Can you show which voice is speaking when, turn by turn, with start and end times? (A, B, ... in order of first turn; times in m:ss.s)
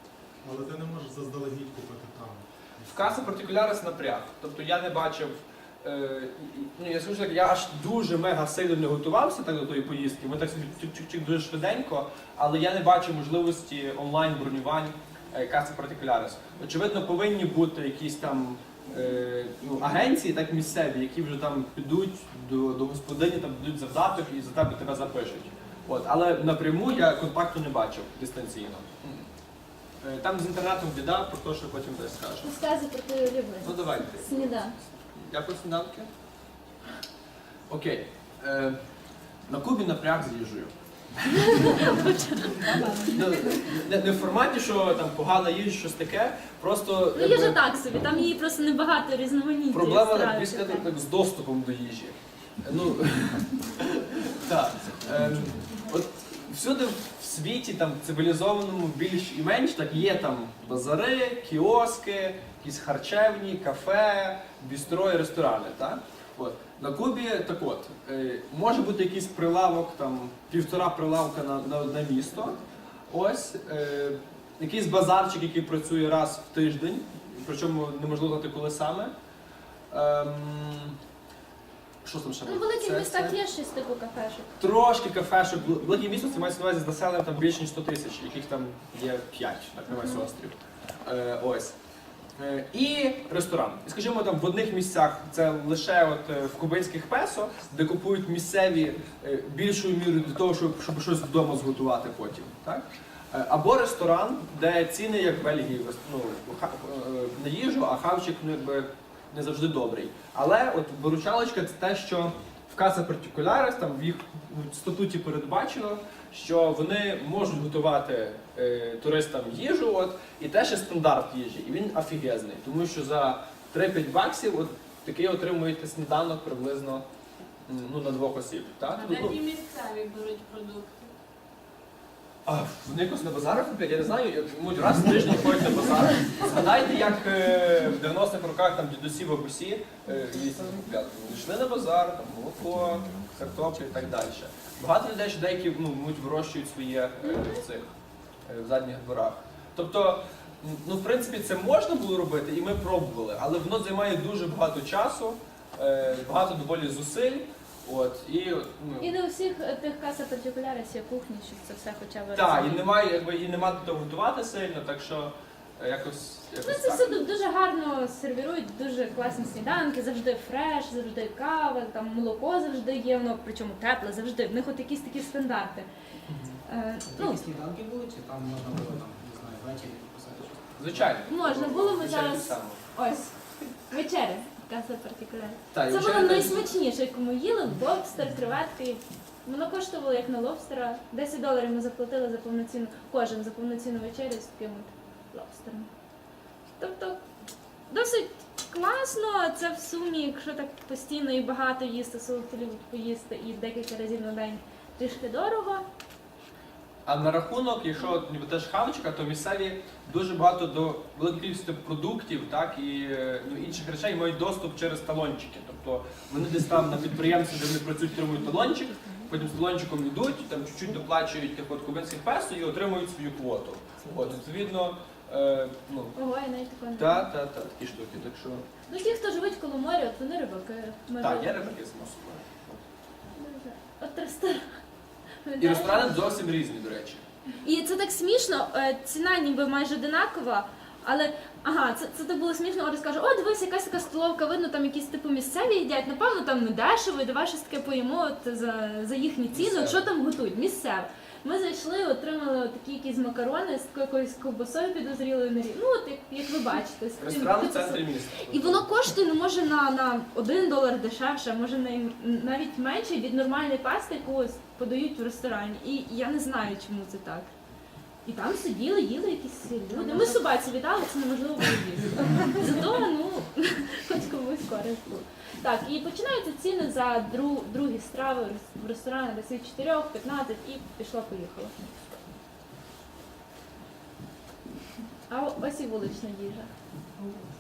0:00.4-0:03.1 A
0:02.9-0:29.3 B
0:30.0-0:32.5 B
0:32.4-0:34.7 C
0:33.6-0:36.1 B
0:37.7-0:38.8 B
0:39.5-0:42.1 B
0:41.3-0:43.6 C
0:42.8-0:47.6 B
0:47.2-0:50.9 C
0:49.7-1:12.6 B
1:13.1-1:19.1 B
1:19.9-1:21.0 B
1:22.0-1:23.4 B
1:22.5-1:24.5 C
1:24.6-1:31.8 B
1:32.4-2:07.0 B
2:07.7-2:09.4 B
2:08.9-2:11.1 D
2:12.5-2:27.9 B
2:28.5-2:39.1 B
2:39.0-2:42.8 C
2:42.4-2:47.3 B
2:46.6-2:55.9 C
2:56.7-2:57.4 C
2:57.1-3:01.2 E
3:00.8-3:02.8 B
3:01.3-3:15.9 C
3:05.7-3:06.7 B
3:16.8-3:17.2 C
3:17.9-3:25.8 C
3:27.1-3:46.2 B
3:46.2-3:47.3 C
3:47.0-3:48.7 B
3:48.9-3:51.5 C
3:51.2-3:52.8 B
3:53.4-3:54.8 C
3:55.4-3:56.3 C
3:55.6-3:57.2 B
3:57.6-4:27.5 C
4:09.5-4:10.0 B
4:17.2-4:18.9 B
4:28.3-4:41.8 C
4:45.3-4:46.7 C